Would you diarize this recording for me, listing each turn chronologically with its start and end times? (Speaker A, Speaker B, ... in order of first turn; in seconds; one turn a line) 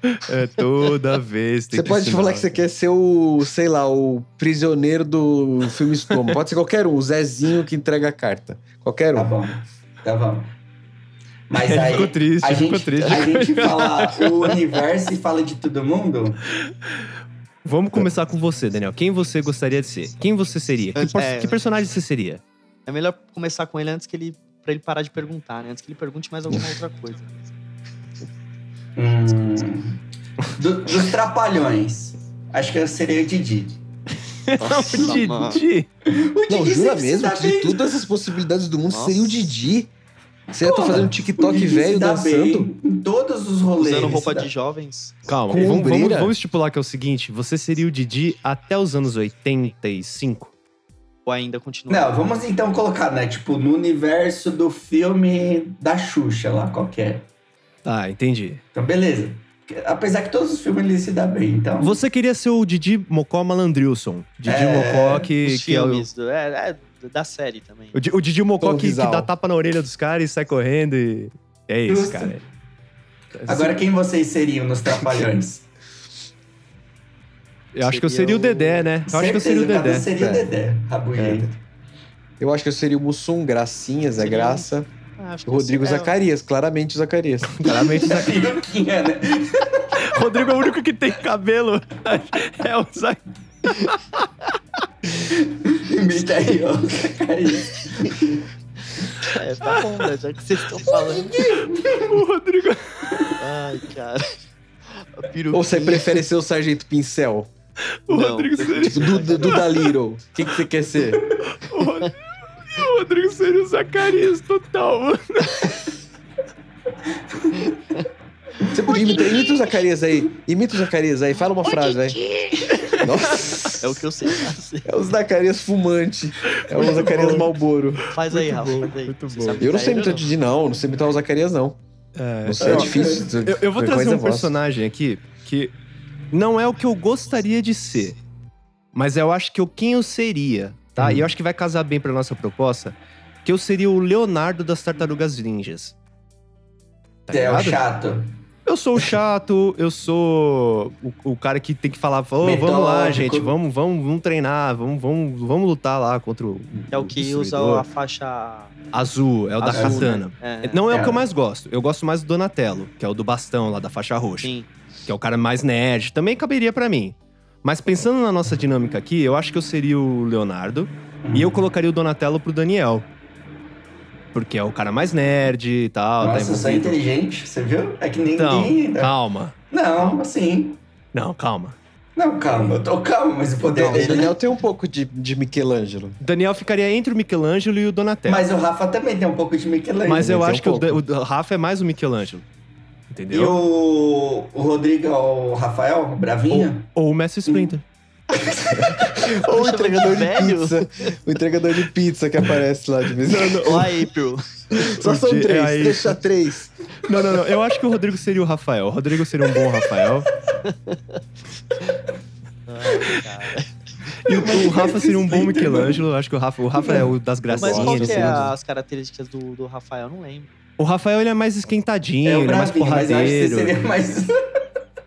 Speaker A: 0.1-2.5
Speaker B: 1.7-9.3
Speaker C: 9.1-10.5
Speaker C: 11.5-16.4
Speaker A: 11.6-14.6
Speaker A: 17.6-22.4
Speaker D: 20.9-21.6
Speaker D: 22.9-27.3
Speaker C: 28.9-33.8
Speaker A: 34.4-35.9
Speaker D: 34.6-35.6
Speaker C: 36.1-38.0
Speaker B: 36.5-39.9
Speaker D: 38.9-39.5
Speaker B: 40.5-42.7
Speaker C: 40.6-44.5
Speaker D: 43.8-45.1
Speaker A: 45.3-50.5
Speaker B: 45.5-46.4
Speaker D: 51.2-52.2
Speaker C: 51.9-57.2
Speaker A: 57.8-58.6
Speaker C: 58.7-62.0
Speaker A: 61.8-66.1
Speaker C: 64.5-65.3
Speaker D: 65.4-68.0
Speaker A: 67.9-72.4
Speaker B: 68.6-69.3
Speaker C: 71.9-72.3
Speaker A: 73.3-73.8
Speaker C: 73.5-75.6
Speaker A: 77.7-80.1
Speaker D: 77.8-78.9
Speaker C: 79.1-81.6
Speaker B: 80.1-80.5
Speaker A: 81.2-81.5
Speaker B: 82.4-84.9
Speaker D: 84.2-86.1
Speaker B: 85.5-87.6
Speaker A: 87.5-88.6
Speaker C: 87.7-90.2
Speaker A: 90.0-94.2
Speaker C: 95.2-98.5
Speaker D: 99.2-101.5
Speaker A: 101.1-103.4
Speaker C: 101.3-102.2
Speaker D: 103.4-104.4
Speaker D: 104.9-106.2
Speaker B: 105.5-107.5
Speaker A: 108.0-109.9
Speaker D: 108.1-109.7
Speaker B: 108.8-111.3
Speaker A: 111.5-115.9
Speaker B: 118.7-122.2
Speaker A: 121.8-123.8
Speaker D: 122.5-123.0
Speaker B: 122.9-124.0
Speaker D: 123.8-124.9
Speaker B: 124.8-128.0
Speaker A: 126.5-127.5
Speaker A: 128.1-129.7
Speaker D: 128.1-130.3
Speaker B: 129.6-131.8
Speaker A: 132.2-135.7
Speaker B: 132.4-134.6
Speaker C: 132.6-133.2
Speaker A: 136.3-138.2
Speaker A: 138.9-145.9
Speaker A: 147.3-147.8
Speaker C: 147.3-148.3
Speaker A: 148.7-157.8
Speaker C: 152.4-153.5
Speaker D: 156.9-158.8
Speaker A: 158.9-164.5
Speaker D: 159.6-160.9
Speaker C: 159.7-160.2
Speaker C: 160.9-161.2
Speaker D: 164.4-164.7
Speaker A: 165.1-173.1
Speaker C: 171.2-171.6
Speaker A: 174.3-177.0
Speaker C: 176.2-179.1
Speaker A: 178.3-180.2
Speaker C: 179.7-180.8
Speaker A: 181.1-181.8
Speaker C: 182.2-184.3
Speaker A: 182.5-182.8
Speaker D: 183.7-184.3
Speaker B: 183.7-186.2
Speaker A: 186.2-188.5
Speaker C: 188.2-190.3
Speaker A: 190.1-192.4
Speaker B: 190.2-191.0
Speaker A: 193.1-193.6
Speaker C: 193.3-196.9
Speaker A: 196.5-197.8
Speaker C: 197.5-197.7
Speaker B: 198.6-203.9
Speaker D: 199.0-201.1
Speaker A: 203.2-204.0
Speaker D: 203.6-204.4
Speaker B: 204.7-206.7
Speaker A: 204.8-206.2
Speaker A: 207.0-210.3
Speaker D: 210.6-211.2
Speaker D: 212.7-213.7
Speaker A: 214.2-218.5
Speaker C: 214.2-216.0
Speaker C: 216.8-217.1
Speaker B: 217.5-218.5
Speaker D: 217.6-220.6
Speaker A: 220.8-223.8
Speaker C: 222.2-224.4